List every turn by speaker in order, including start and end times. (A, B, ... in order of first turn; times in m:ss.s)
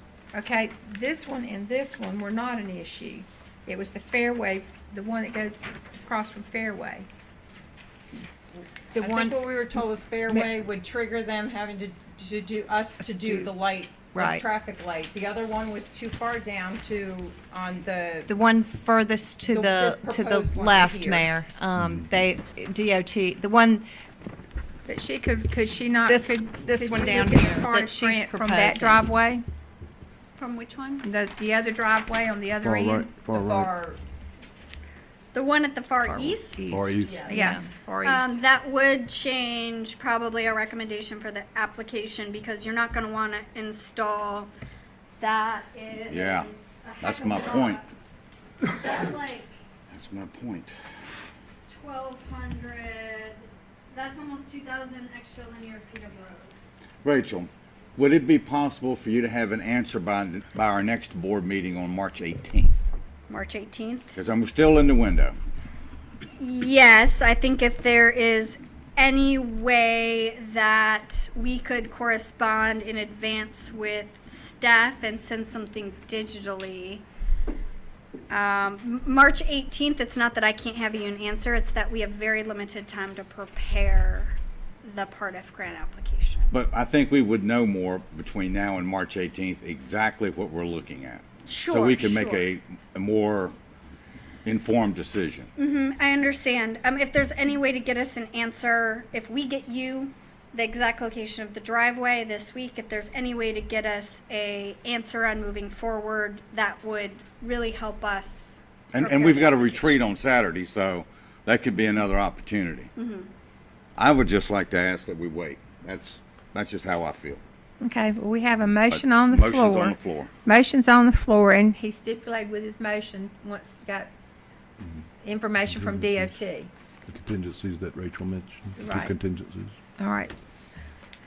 0:00.3-0:07.1 A
0:08.9-0:09.4 B
0:08.9-0:18.3 C
0:13.1-0:13.5 B
0:14.1-0:14.4 B
0:18.3-0:23.9 B
0:19.4-0:21.3 C
0:21.8-0:22.1 D
0:24.9-0:29.4 A
0:26.0-0:29.1 B
0:30.4-0:31.0 E
0:31.0-0:33.2 A
0:32.6-0:33.7 D
0:33.3-0:34.0 C
0:35.3-0:36.8 E
0:36.0-0:37.7 B
0:36.7-0:37.3 D
0:37.0-0:37.4 C
0:37.2-0:38.4 A
0:38.0-0:44.5 E
0:45.2-0:47.9 E
0:46.1-0:46.5 F
0:47.0-0:47.8 F
0:48.7-0:49.5 E
0:49.9-0:50.7 F
0:51.7-0:56.5 E
0:57.0-1:02.8 F
1:03.3-1:04.1 E
1:04.1-1:05.4 F
1:06.4-1:17.0 E
1:18.3-1:26.5 E
1:26.5-1:33.5 F
1:31.5-1:32.4 E
1:34.4-1:35.5 F
1:35.6-1:50.0 E
1:48.9-1:52.9 F
1:53.0-1:53.3 E
1:54.0-1:57.4 F
1:57.8-2:04.1 A
1:58.9-2:00.3 F
2:05.2-2:06.7 A
2:05.7-2:06.4 D
2:07.1-2:09.8 D
2:08.8-2:09.1 A
2:10.0-2:10.3 A